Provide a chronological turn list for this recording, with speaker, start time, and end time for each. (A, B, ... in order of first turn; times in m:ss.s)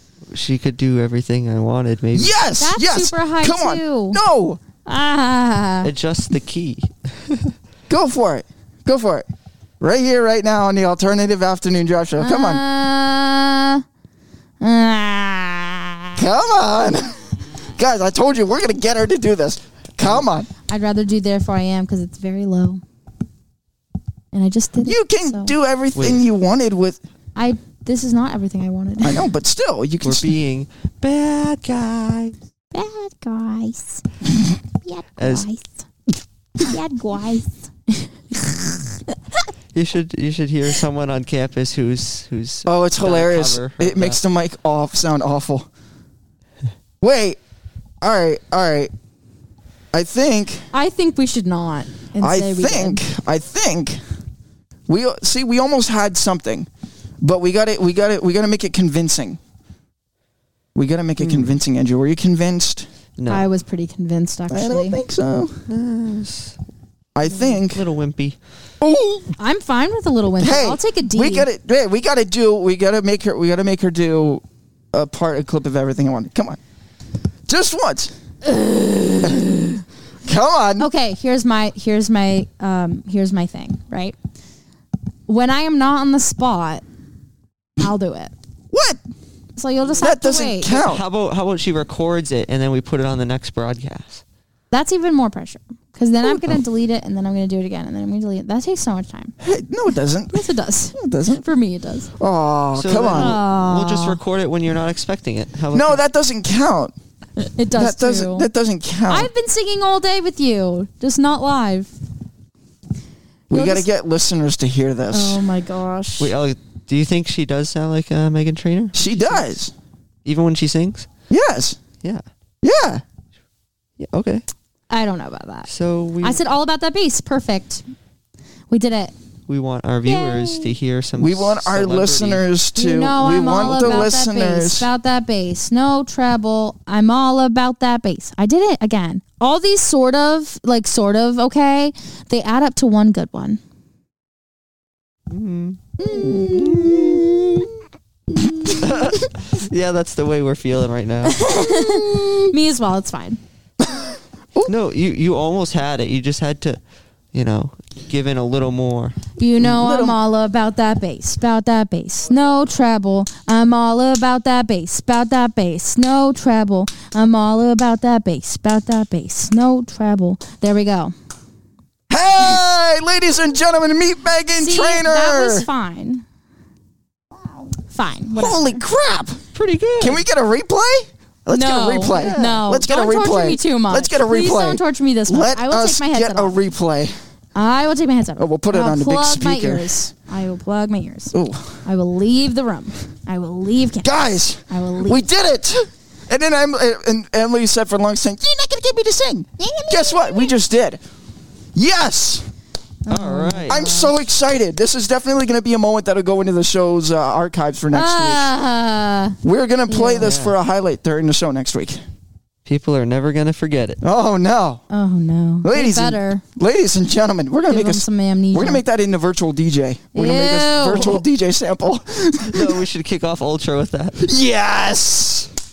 0:00.3-0:02.3 A
0:02.1-0:04.6 B
0:02.6-0:04.2 C
0:04.8-0:05.9 C
0:05.8-0:07.5 A
0:07.9-0:09.3 B
0:09.8-0:12.6 B
0:12.2-0:13.8 C
0:14.6-0:16.0 C
0:16.2-0:20.5 B
0:20.7-0:22.8 C
0:24.3-0:25.5 C
0:24.8-0:27.0 B
0:26.0-0:26.2 A
0:27.4-0:29.2 C
0:29.0-0:30.3 B
0:30.0-0:32.3 A
0:32.7-0:34.0 C
0:34.8-0:35.8 C
0:35.2-0:35.5 A
0:36.6-0:38.8 C
0:39.7-0:44.2 A
0:42.7-0:45.7 B
0:47.0-0:47.4 B
0:48.0-0:48.9 B
0:49.9-0:50.7 B
0:50.7-0:53.0 C
0:52.2-0:54.0 B
0:54.9-0:56.7 B
0:57.2-0:59.4 B
1:00.8-1:02.9 B
1:01.2-1:01.5 A
1:03.2-1:03.5 A
1:03.3-1:05.0 C
1:04.5-1:05.6 B
1:05.7-1:06.6 A
1:07.2-1:07.8 B
1:07.3-1:08.4 A
1:08.8-1:09.3 B
1:09.4-1:11.5 C
1:10.4-1:16.6 B
1:17.5-1:18.1 B
1:19.2-1:19.6 B
1:20.2-1:20.9 B
1:20.8-1:24.2 C
1:25.3-1:26.8 C
1:27.8-1:28.3 C
1:28.7-1:29.0 B
1:29.6-1:30.8 C
1:30.0-1:31.0 B
1:30.7-1:34.2 A
1:34.7-1:39.3 C
1:39.4-1:40.4 B
1:40.3-1:42.1 C
1:41.0-1:41.4 B
1:42.2-1:43.4 B
1:42.8-1:46.0 A
1:43.1-1:44.2 C
1:45.7-1:46.9 B
1:47.4-1:48.5 C
1:47.8-1:49.3 B
1:49.1-1:51.9 C
1:53.5-1:55.4 B
1:53.5-1:53.9 C
1:55.1-1:56.3 C
1:56.2-1:59.4 A
1:58.9-1:59.7 B
2:00.2-2:01.1 A
2:01.3-2:01.8 B
2:02.6-2:03.0 B
2:04.0-2:04.4 A
2:04.9-2:05.7 C
2:05.7-2:06.4 A
2:06.2-2:07.8 C
2:08.7-2:09.1 C
2:09.5-2:12.4 A
2:10.1-2:10.7 C
2:11.2-2:14.9 B
2:12.8-2:23.6 C
2:13.4-2:14.1 A
2:25.3-2:27.3 A
2:26.0-2:27.7 B
2:28.4-2:29.0 B
2:28.8-2:31.4 A
2:31.2-2:33.4 C
2:31.4-2:32.5 B
2:33.8-2:34.7 B
2:34.7-2:36.8 A
2:37.3-2:39.2 A
2:39.4-2:51.1 C
2:39.6-2:40.2 B
2:52.1-2:55.7 B
2:54.6-2:56.2 C
2:57.9-2:58.8 C
2:58.4-2:59.4 B
2:59.5-3:00.2 A
3:00.0-3:07.2 B
3:01.5-3:06.6 C
3:02.2-3:02.5 A
3:07.6-3:15.3 C
3:08.4-3:09.9 B
3:11.3-3:11.8 B
3:14.0-3:21.0 B
3:19.6-3:20.5 C
3:21.7-3:22.5 B
3:23.1-3:24.1 C
3:23.1-3:23.8 A
3:23.7-3:28.5 B
3:27.9-3:29.4 C
3:29.4-3:32.0 B
3:29.9-3:30.3 C
3:30.2-3:30.6 A
3:32.7-3:34.0 A
3:34.0-3:34.8 B
3:34.9-3:36.4 C
3:35.6-3:42.8 B
3:37.7-3:38.8 C
3:40.1-3:41.2 C
3:42.5-3:44.2 A
3:44.2-3:45.5 B